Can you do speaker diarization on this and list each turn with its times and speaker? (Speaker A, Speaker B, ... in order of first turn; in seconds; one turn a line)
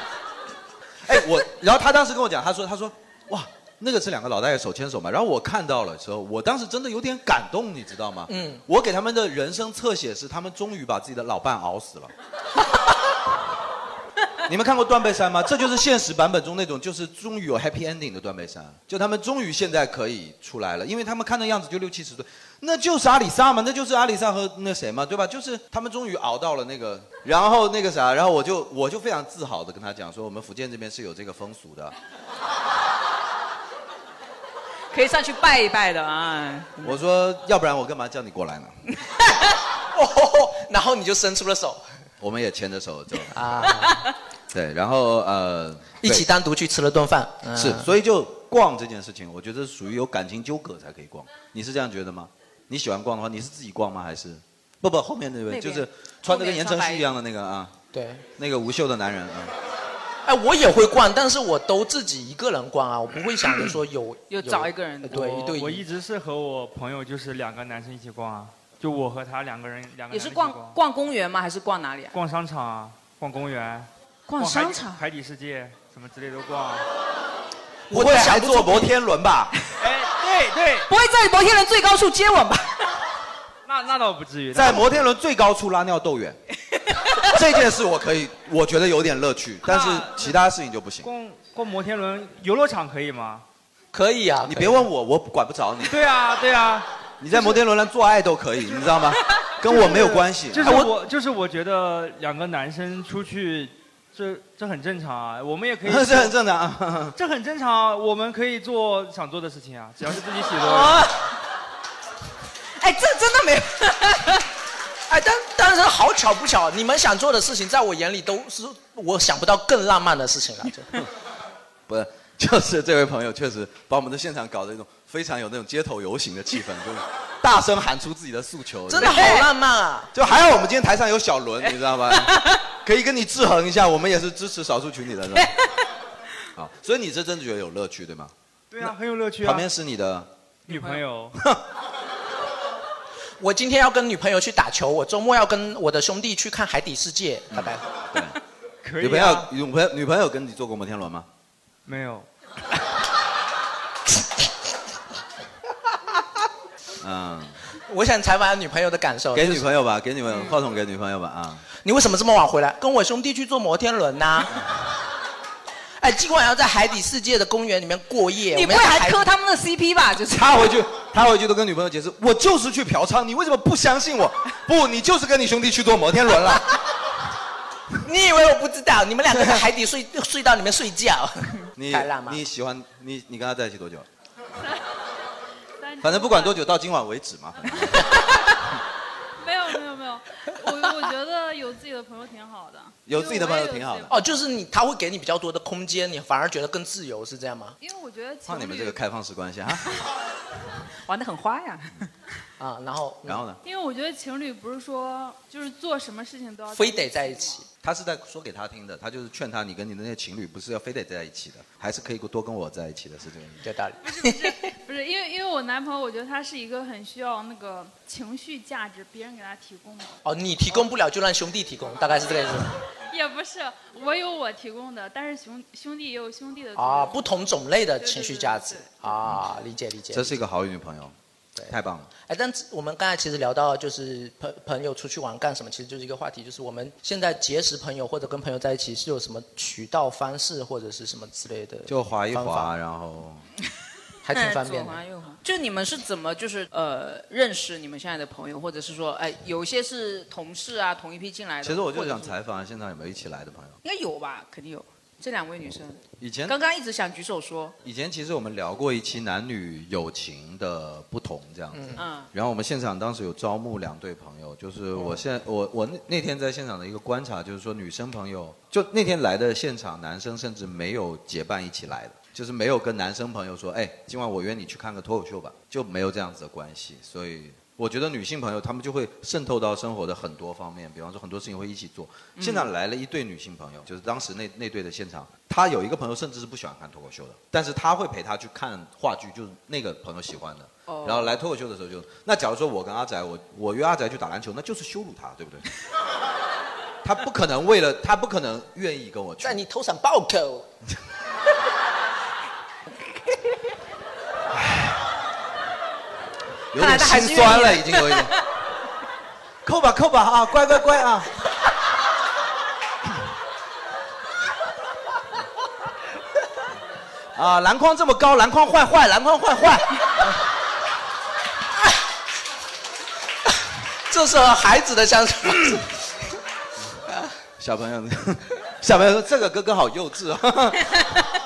Speaker A: 1.0-12.1
Speaker B: 8.3-8.6
Speaker A: 14.5-31.9
Speaker C: 34.9-36.7
Speaker A: 36.8-38.8
Speaker B: 39.9-41.8
Speaker A: 42.2-43.6
Speaker B: 43.3-44.0
Speaker A: 44.5-46.3
Speaker B: 46.0-47.9
Speaker A: 47.5-57.7
Speaker C: 55.5-57.1
Speaker B: 57.9-58.3
Speaker A: 58.4-59.5
Speaker B: 60.2-65.8
Speaker C: 64.3-65.5
Speaker D: 65.4-70.8
Speaker C: 70.1-72.2
Speaker D: 72.1-76.9
Speaker C: 74.3-75.0
Speaker B: 77.9-78.9
Speaker A: 77.9-79.5
Speaker D: 79.8-80.9
Speaker C: 80.9-82.8
Speaker D: 83.7-85.0
Speaker A: 84.5-86.4
Speaker C: 86.9-87.2
Speaker A: 87.2-91.1
Speaker D: 91.0-93.4
Speaker B: 93.9-94.9
Speaker A: 94.5-96.0
Speaker D: 95.9-96.9
Speaker A: 97.2-100.8
Speaker D: 99.7-106.3
Speaker B: 100.6-100.9
Speaker A: 105.9-107.2
Speaker D: 107.2-111.3
Speaker C: 110.6-111.2
Speaker C: 112.8-114.4
Speaker B: 115.1-121.0
Speaker A: 121.9-129.4
Speaker B: 128.9-130.1
Speaker C: 129.0-129.5
Speaker A: 130.1-135.6
Speaker C: 131.7-132.6
Speaker A: 136.6-140.3
Speaker D: 138.7-139.7
Speaker D: 140.7-141.3
Speaker C: 140.7-141.0
Speaker A: 141.3-141.6
Speaker B: 143.4-147.9
Speaker A: 147.5-148.4
Speaker D: 148.8-149.5
Speaker A: 149.0-151.3
Speaker D: 151.9-152.3
Speaker A: 157.0-157.6
Speaker B: 157.9-159.6
Speaker A: 159.3-161.7
Speaker B: 161.8-164.7
Speaker B: 166.0-169.3
Speaker C: 168.5-170.7
Speaker A: 170.3-176.7
Speaker B: 178.0-182.4
Speaker A: 181.8-184.1
Speaker E: 184.6-184.8
Speaker E: 185.8-186.7
Speaker A: 186.0-188.1
Speaker E: 187.6-188.5
Speaker E: 189.4-194.1
Speaker A: 193.1-194.1
Speaker B: 194.1-197.8
Speaker E: 197.8-199.0
Speaker A: 198.5-199.9
Speaker C: 201.1-202.1
Speaker B: 202.6-203.4
Speaker A: 203.2-203.6
Speaker E: 203.6-207.7
Speaker B: 206.7-207.6
Speaker A: 207.8-213.6
Speaker B: 213.6-214.7
Speaker E: 214.0-220.2
Speaker B: 220.2-222.8
Speaker E: 223.1-229.0
Speaker B: 226.8-230.4
Speaker A: 230.1-231.1
Speaker B: 231.6-242.7
Speaker A: 231.7-232.1
Speaker A: 241.9-243.4
Speaker B: 244.2-245.0
Speaker C: 244.3-252.3
Speaker A: 251.6-253.8
Speaker C: 253.8-257.8
Speaker A: 256.2-256.6
Speaker A: 257.8-295.6
Speaker B: 261.7-262.0
Speaker C: 262.0-262.3
Speaker C: 282.4-282.7
Speaker C: 290.9-291.4
Speaker A: 297.0-299.6
Speaker B: 299.4-300.7
Speaker A: 304.5-305.0
Speaker A: 306.7-308.3
Speaker B: 306.8-307.8
Speaker C: 307.1-308.2
Speaker A: 309.6-311.3
Speaker A: 317.4-320.0
Speaker B: 324.1-326.0
Speaker A: 327.6-331.1